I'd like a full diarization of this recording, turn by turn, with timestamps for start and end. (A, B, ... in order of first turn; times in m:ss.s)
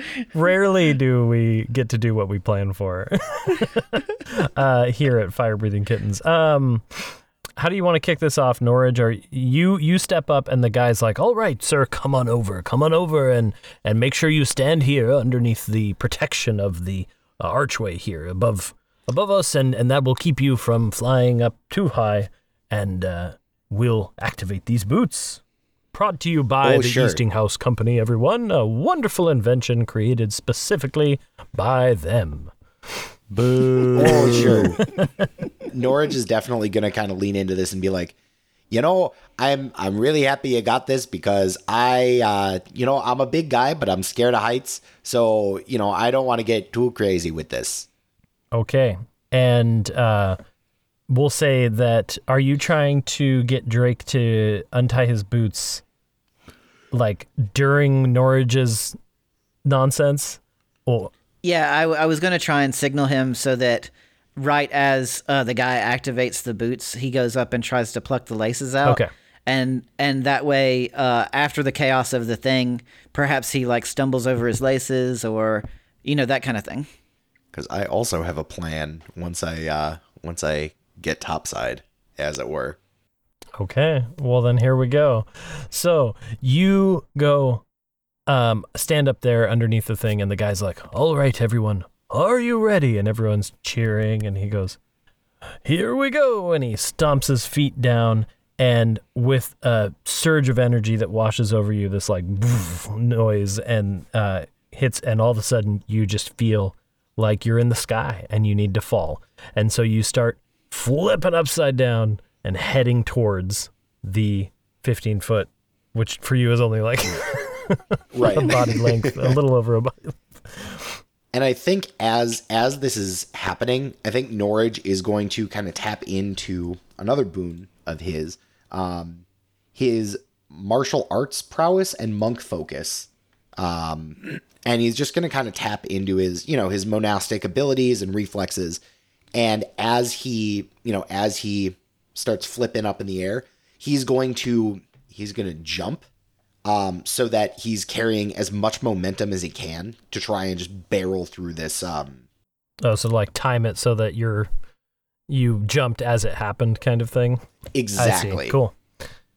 0:00.3-0:25.4 A
0:25.9-0:32.5 A
0:26.6-0:27.2 B
0:33.3-0:35.1 A
0:34.0-0:34.8 B
0:35.6-0:38.2 B
0:38.7-0:47.9 B
0:48.5-0:50.4 A
0:51.1-0:55.8 A
0:56.9-0:59.0 A
0:59.6-1:01.1 A
1:01.4-1:16.9 C
1:17.5-1:22.8 B
1:23.6-1:27.6 A
1:28.3-1:34.8 A
1:35.6-2:01.0 A
1:58.1-1:59.4 B
2:01.3-2:09.2 B
2:09.8-2:18.8 B
2:19.4-2:26.0 B
2:26.7-2:32.2 B
2:32.8-2:34.5 A
2:35.3-2:37.4 A
2:37.7-2:38.6 B
2:38.0-2:38.7 A